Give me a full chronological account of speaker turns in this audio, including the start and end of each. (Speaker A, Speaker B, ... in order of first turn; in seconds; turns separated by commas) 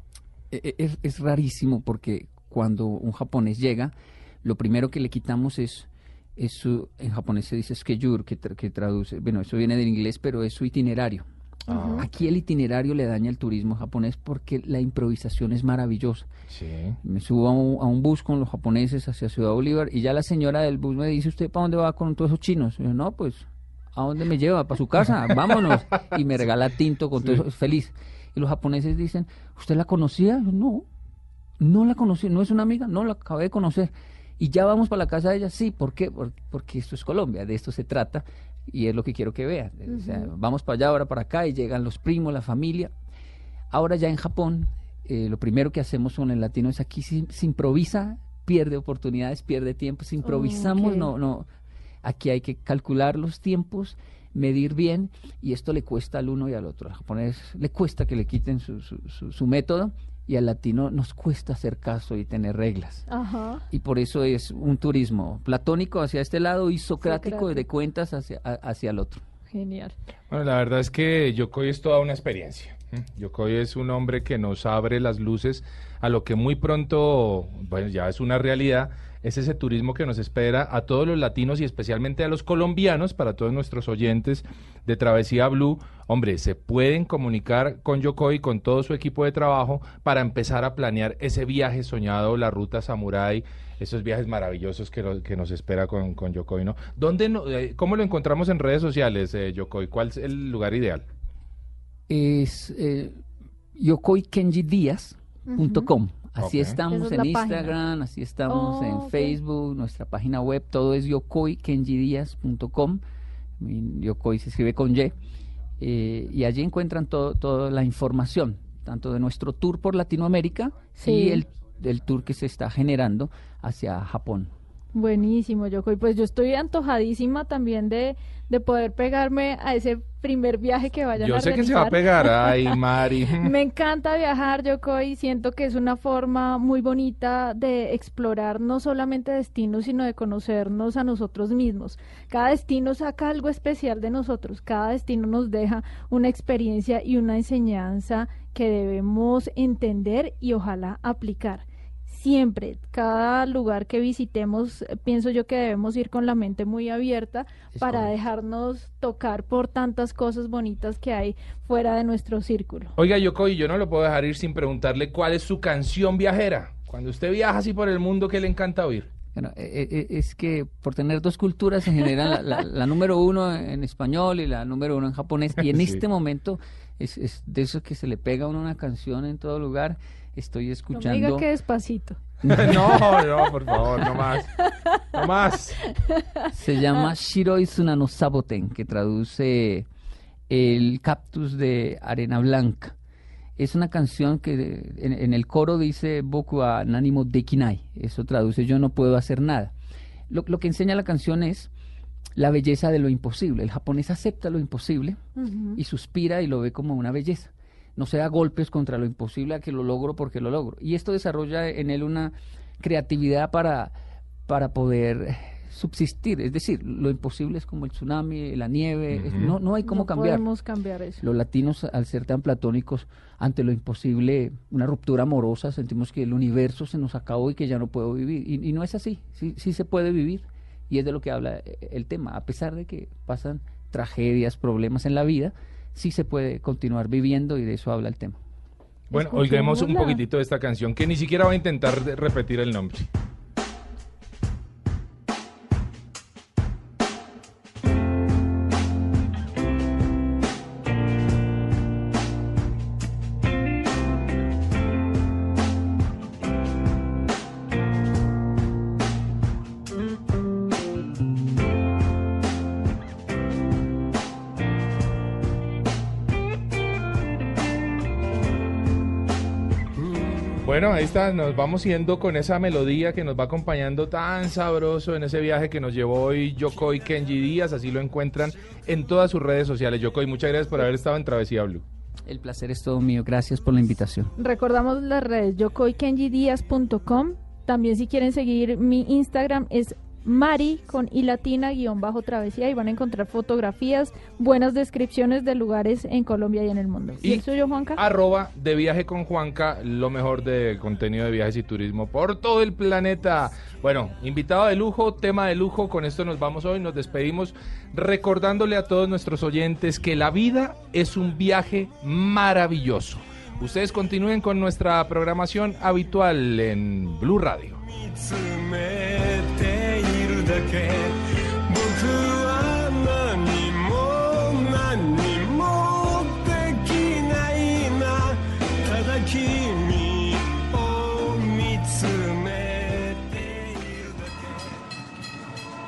Speaker A: 0.5-11.2, Speaker B: 11.7-12.0, Speaker C: 11.7-12.1, Speaker A: 11.9-16.3, Speaker C: 16.5-17.0, Speaker A: 17.0-30.9, Speaker A: 31.6-42.9, Speaker B: 39.9-40.3, Speaker A: 43.7-51.5, Speaker B: 50.2-51.1, Speaker A: 52.0-63.1, Speaker B: 63.1-63.6, Speaker A: 63.7-69.2, Speaker B: 67.0-67.6, Speaker B: 69.5-69.9, Speaker C: 70.3-101.0, Speaker A: 102.1-103.2, Speaker A: 103.7-113.0, Speaker B: 105.5-105.9, Speaker C: 106.4-106.8, Speaker B: 106.9-107.8, Speaker B: 108.5-109.4, Speaker A: 113.6-115.1, Speaker A: 115.8-124.5, Speaker B: 121.0-121.4, Speaker B: 124.9-132.8, Speaker C: 131.2-133.5, Speaker B: 133.4-162.9, Speaker A: 157.7-158.1, Speaker C: 162.9-169.1, Speaker A: 169.3-181.5, Speaker C: 175.7-176.0, Speaker B: 180.9-182.2, Speaker A: 182.4-183.2, Speaker C: 182.4-185.8, Speaker B: 184.6-185.0, Speaker B: 185.9-186.5, Speaker A: 186.5-189.9, Speaker A: 190.5-192.9, Speaker A: 193.6-199.7, Speaker A: 200.3-201.7, Speaker A: 202.3-205.2, Speaker B: 205.3-205.8, Speaker A: 205.7-213.9, Speaker A: 214.4-220.4, Speaker C: 219.1-219.5, Speaker B: 219.8-221.2, Speaker A: 221.2-238.4, Speaker C: 239.1-243.1, Speaker B: 239.1-240.2, Speaker D: 270.1-270.5, Speaker C: 270.6-281.8, Speaker A: 282.2-284.3, Speaker B: 284.4-298.0, Speaker C: 297.9-317.8, Speaker D: 317.8-334.8